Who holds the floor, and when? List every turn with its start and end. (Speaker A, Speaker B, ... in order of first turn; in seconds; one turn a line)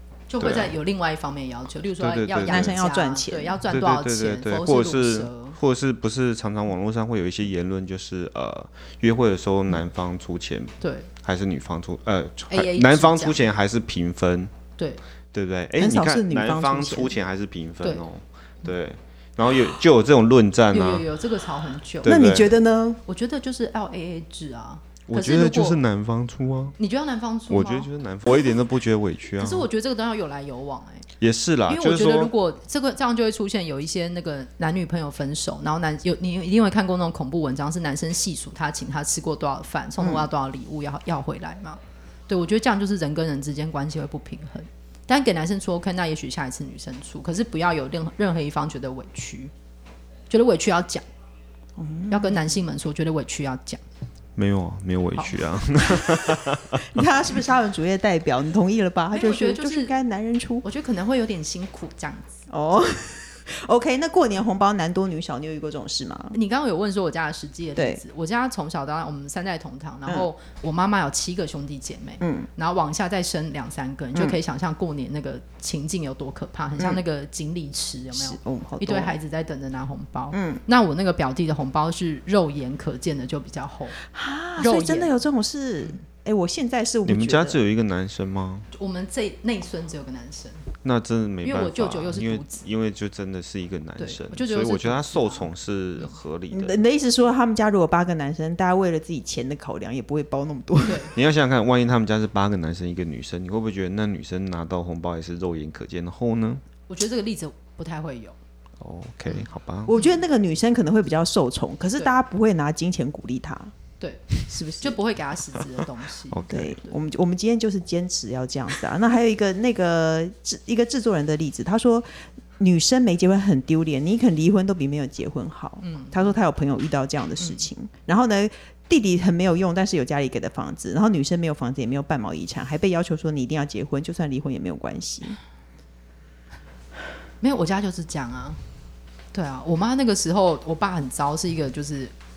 Speaker A: 0.3-5.6
Speaker B: 0.4-0.8
Speaker B: 2.0-2.8
Speaker C: 2.4-3.6
Speaker B: 3.7-14.5
Speaker A: 10.8-11.1
Speaker A: 12.5-13.5
Speaker A: 14.8-15.0
Speaker B: 15.3-21.1
Speaker C: 15.8-17.1
Speaker A: 20.7-22.2
Speaker B: 22.0-22.5
Speaker C: 22.1-23.0
Speaker A: 23.1-25.8
Speaker B: 25.1-26.8
Speaker A: 26.8-27.9
Speaker B: 27.5-29.7
Speaker A: 29.4-31.1
Speaker B: 31.2-32.3
Speaker A: 31.7-49.5
Speaker C: 40.0-40.3
Speaker A: 50.3-51.0
Speaker C: 51.8-52.5
Speaker A: 52.1-53.8
Speaker B: 54.4-57.0
Speaker C: 56.8-60.6
Speaker A: 59.1-59.9
Speaker A: 60.6-62.5
Speaker C: 62.5-66.4
Speaker A: 66.3-84.0
Speaker C: 67.8-68.0
Speaker C: 72.2-72.5
Speaker C: 78.1-79.2
Speaker C: 80.3-80.6
Speaker C: 84.1-87.6
Speaker A: 84.6-85.1
Speaker B: 87.0-88.7
Speaker A: 88.7-90.7
Speaker B: 90.8-96.8
Speaker A: 91.4-92.6
Speaker A: 94.0-96.1
Speaker C: 96.5-101.1
Speaker A: 100.8-101.1
Speaker B: 101.1-106.6
Speaker A: 106.9-108.4
Speaker B: 108.8-109.9
Speaker C: 109.9-113.7
Speaker A: 114.0-117.0
Speaker C: 114.4-115.0
Speaker B: 116.3-116.8
Speaker C: 116.5-135.4
Speaker A: 125.8-126.3
Speaker A: 137.4-138.6
Speaker A: 139.3-142.1